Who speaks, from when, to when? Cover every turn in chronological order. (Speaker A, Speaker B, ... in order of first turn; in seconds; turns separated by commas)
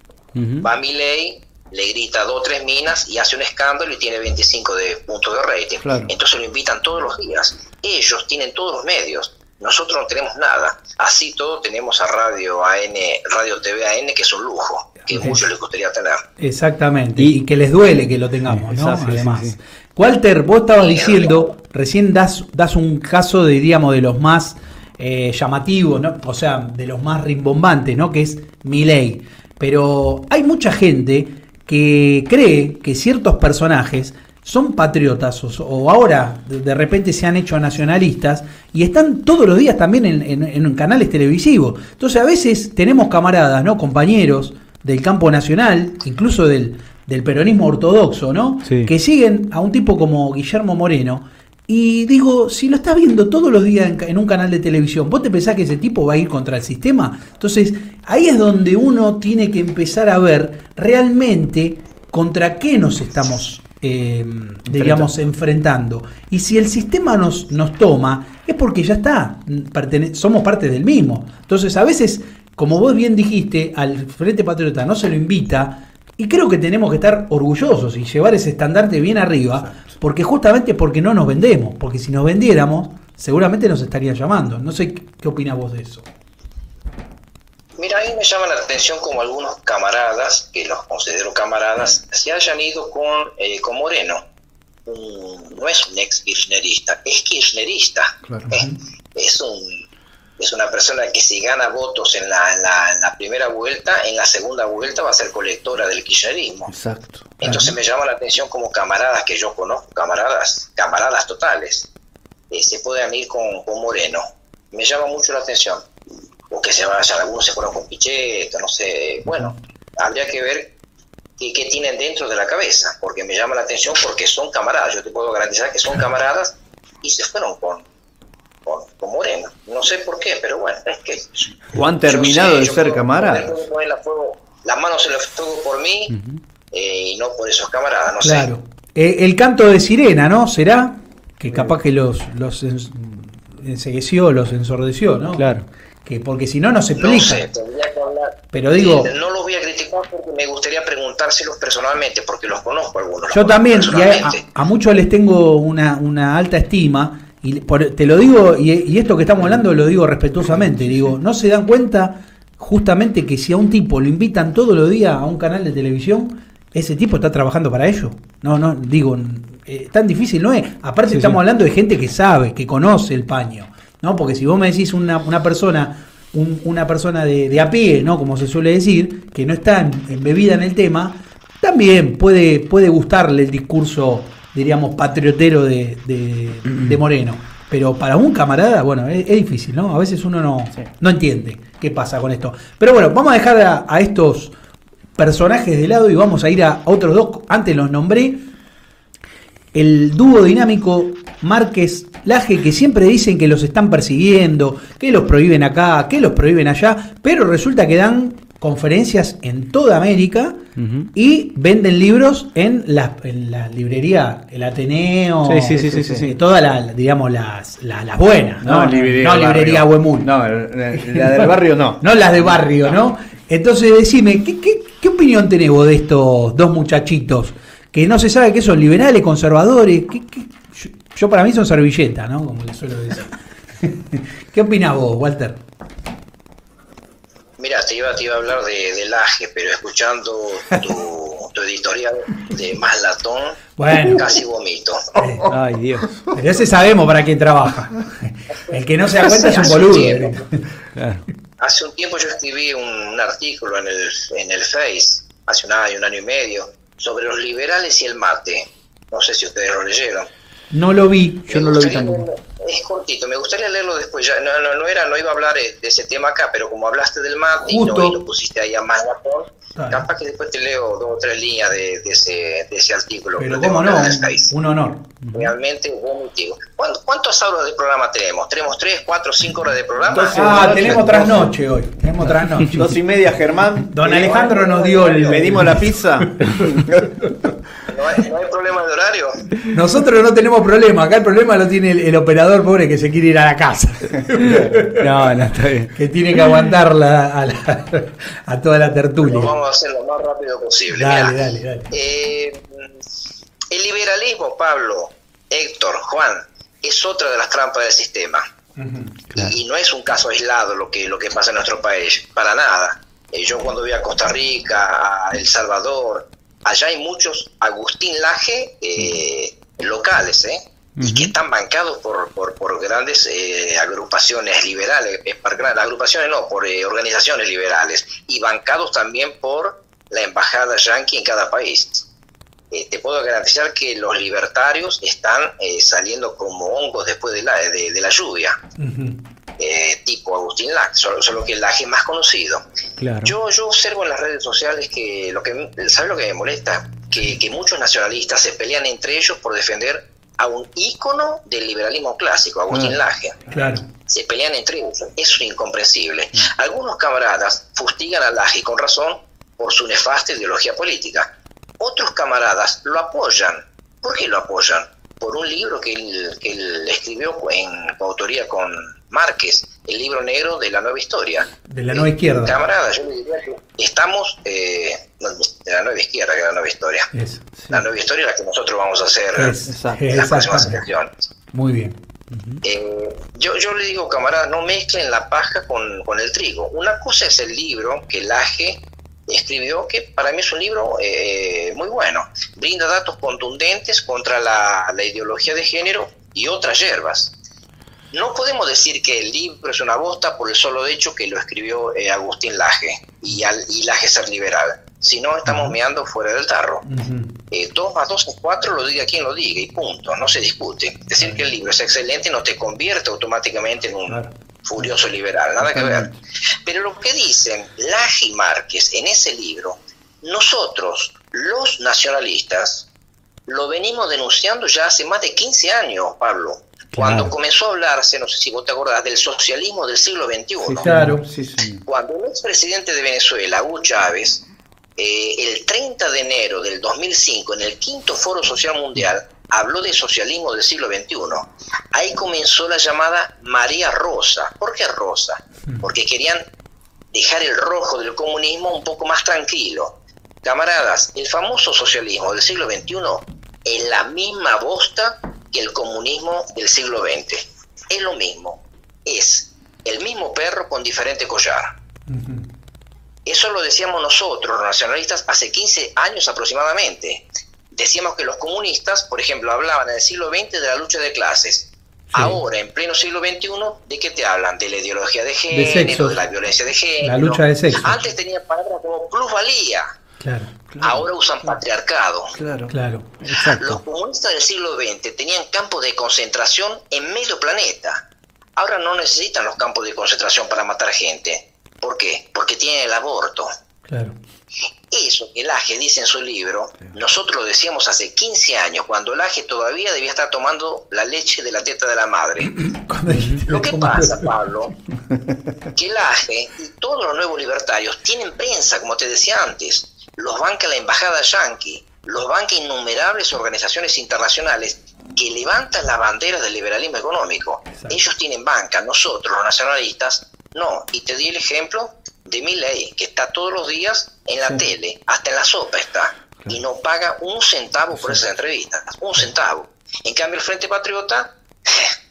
Speaker A: 0.3-0.7, Speaker B: 0.6-16.2, Speaker C: 5.8-6.1, Speaker D: 15.2-15.4, Speaker D: 16.4-86.1, Speaker C: 18.7-19.5, Speaker A: 19.1-19.5, Speaker B: 20.8-21.4, Speaker A: 48.7-48.9, Speaker C: 64.8-65.1, Speaker B: 87.8-94.2, Speaker B: 94.9-99.8, Speaker C: 98.3-98.6, Speaker B: 100.4-106.7, Speaker C: 106.7-107.5, Speaker B: 107.4-111.9, Speaker D: 107.4-107.8, Speaker B: 112.5-115.8, Speaker B: 116.5-120.7, Speaker B: 121.4-127.8, Speaker B: 128.7-136.2, Speaker C: 131.7-133.6, Speaker A: 136.1-136.4, Speaker B: 136.7-138.5, Speaker D: 138.2-145.5, Speaker A: 145.4-145.7, Speaker D: 146.1-147.5, Speaker B: 147.0-154.4, Speaker D: 148.5-149.1, Speaker D: 153.3-194.5, Speaker A: 171.1-171.4, Speaker D: 195.2-198.5, Speaker D: 199.7-220.3, Speaker A: 210.8-211.1, Speaker A: 215.4-216.4, Speaker C: 215.8-216.3, Speaker C: 218.6-222.0, Speaker D: 221.1-221.5, Speaker D: 222.0-235.6, Speaker B: 237.6-245.2, Speaker D: 243.8-244.2, Speaker D: 245.2-245.5, Speaker A: 245.5-246.2, Speaker D: 246.3-250.6, Speaker B: 249.2-250.4, Speaker A: 250.9-251.2, Speaker B: 251.6-260.3, Speaker D: 260.7-262.2, Speaker B: 261.5-274.5, Speaker A: 261.8-262.2, Speaker D: 267.7-268.2, Speaker D: 269.8-270.1, Speaker D: 273.4-275.1, Speaker A: 275.2-275.5, Speaker B: 275.3-280.6, Speaker C: 280.1-281.5, Speaker D: 280.3-283.0, Speaker C: 282.7-284.1, Speaker D: 283.9-286.5, Speaker B: 284.1-285.5, Speaker C: 285.2-287.1, Speaker B: 287.9-289.5, Speaker D: 289.7-295.1, Speaker A: 294.9-295.9, Speaker D: 295.9-299.6, Speaker B: 299.2-301.4, Speaker D: 300.9-301.9, Speaker B: 301.9-302.9, Speaker B: 303.7-308.4, Speaker D: 308.8-309.1, Speaker B: 309.4-332.1, Speaker A: 321.0-321.3, Speaker B: 332.7-338.6, Speaker D: 338.8-339.2, Speaker B: 339.6-342.6, Speaker A: 343.0-343.3, Speaker B: 343.2-361.3, Speaker D: 353.5-353.9, Speaker B: 361.8-377.1, Speaker D: 371.7-372.6, Speaker D: 377.1-377.5, Speaker B: 377.7-379.6, Speaker D: 379.4-380.8, Speaker C: 379.7-380.1, Speaker B: 380.1-381.1, Speaker D: 381.5-382.0, Speaker B: 382.6-397.3, Speaker B: 398.1-406.9, Speaker D: 406.9-407.3, Speaker B: 407.5-416.1, Speaker A: 415.7-416.1, Speaker B: 416.6-422.9, Speaker B: 423.5-430.9, Speaker A: 427.0-427.3, Speaker C: 430.7-431.8, Speaker A: 430.8-431.1, Speaker D: 430.9-431.2, Speaker B: 431.9-434.4, Speaker B: 435.0-446.4, Speaker B: 447.1-461.7, Speaker D: 462.1-462.5, Speaker B: 463.3-479.9, Speaker D: 475.5-476.2, Speaker D: 477.0-478.0, Speaker D: 480.2-480.5, Speaker C: 480.7-481.1, Speaker B: 480.8-482.4, Speaker C: 482.4-482.7, Speaker D: 482.7-483.2, Speaker A: 483.2-483.8, Speaker B: 483.3-488.0, Speaker B: 488.6-493.5, Speaker D: 493.9-494.2, Speaker B: 494.9-502.6, Speaker D: 502.6-504.3, Speaker B: 503.5-504.7, Speaker B: 505.8-531.9, Speaker D: 517.7-518.0